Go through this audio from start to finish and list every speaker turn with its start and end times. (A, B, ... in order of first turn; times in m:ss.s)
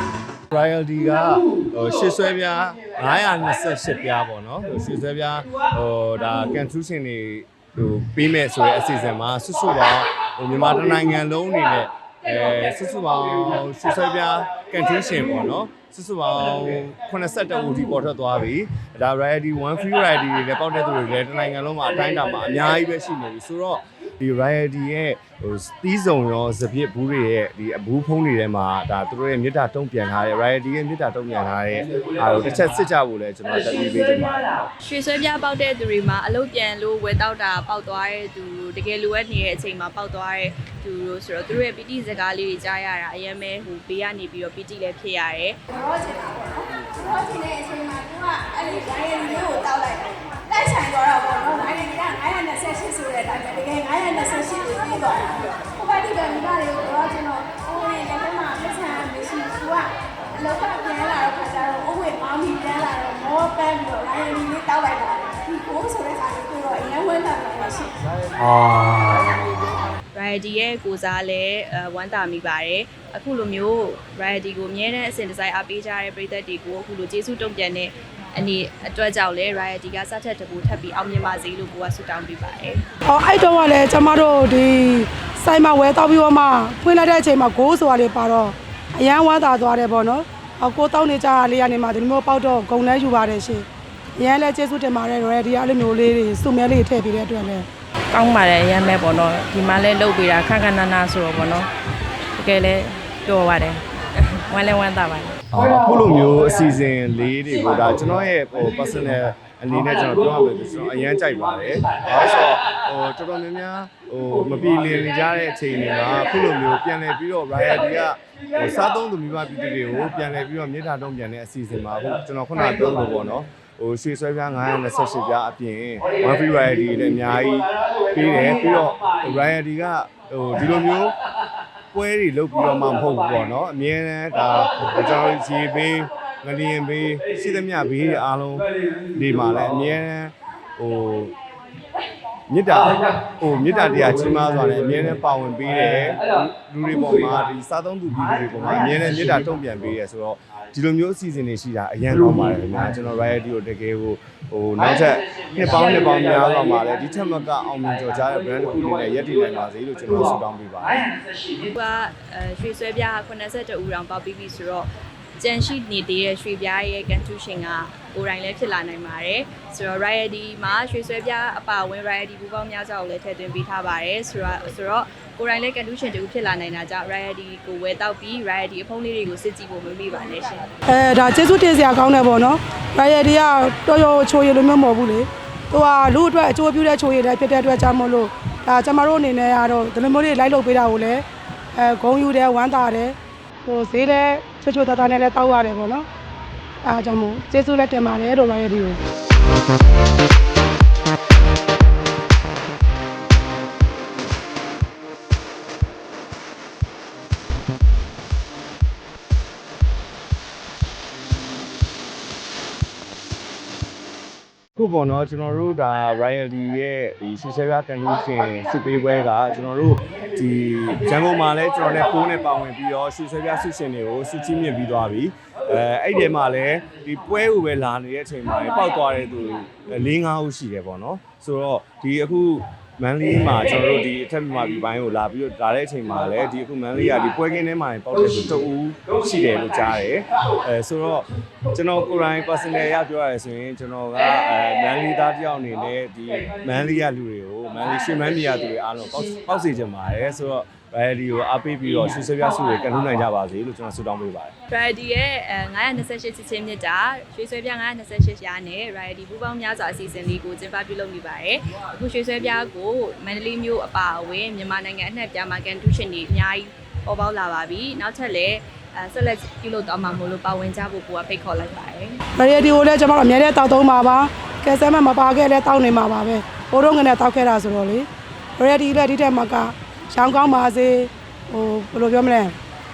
0:00.5-0:34.5 A
0:34.8-0:45.6 B
0:45.7-1:08.0 C
1:10.1-1:22.8 B
1:23.1-1:37.7 D
1:38.1-1:41.7 E
1:42.4-1:45.3 E
1:45.5-2:11.2 A
2:11.9-2:21.4 A
2:22.5-2:41.1 A
2:41.7-2:44.8 B
2:45.4-3:00.7 B
3:00.9-3:16.1 D
3:16.8-3:19.0 D
3:34.8-4:14.5 A
4:14.7-4:32.2 B
4:32.4-4:42.5 D